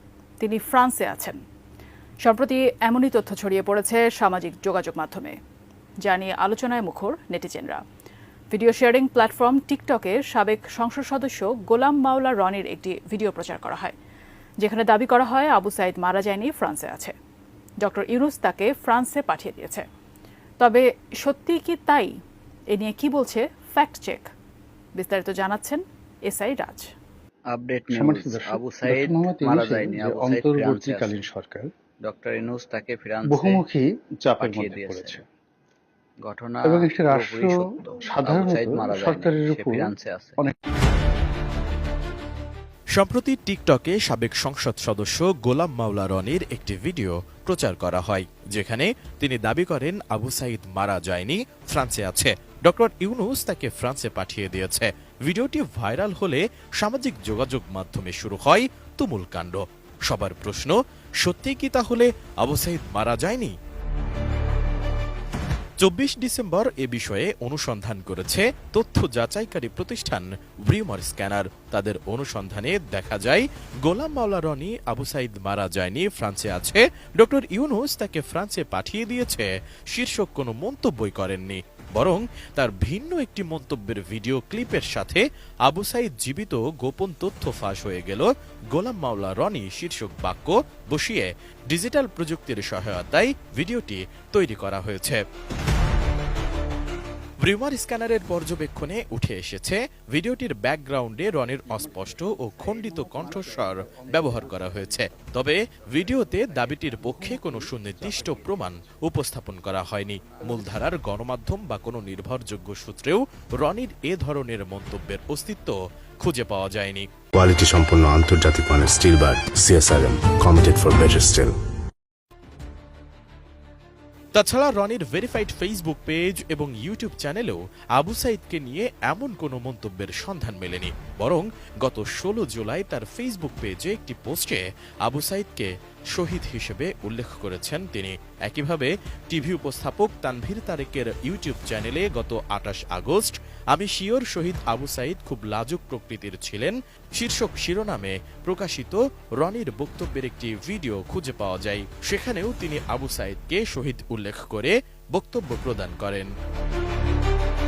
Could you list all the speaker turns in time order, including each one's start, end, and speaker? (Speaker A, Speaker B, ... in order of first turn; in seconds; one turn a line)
Speaker A: 0.4-1.4
Speaker A: 2.2-5.3
Speaker A: 6.0-7.8
Speaker A: 8.5-13.9
Speaker A: 14.6-17.1
Speaker A: 17.8-19.8
Speaker A: 20.6-22.1
Speaker A: 22.7-24.3
Speaker A: 24.9-26.9
Speaker B: 27.5-31.2
Speaker C: 27.9-31.7
Speaker B: 32.0-33.6
Speaker C: 33.2-35.2
Speaker B: 34.4-35.2
Speaker B: 36.2-40.4
Speaker C: 36.6-40.5
Speaker D: 43.0-63.5
Speaker D: 65.8-95.2
Speaker D: 97.4-117.1
Speaker E: 117.4-121.5
Speaker D: 124.3-156.3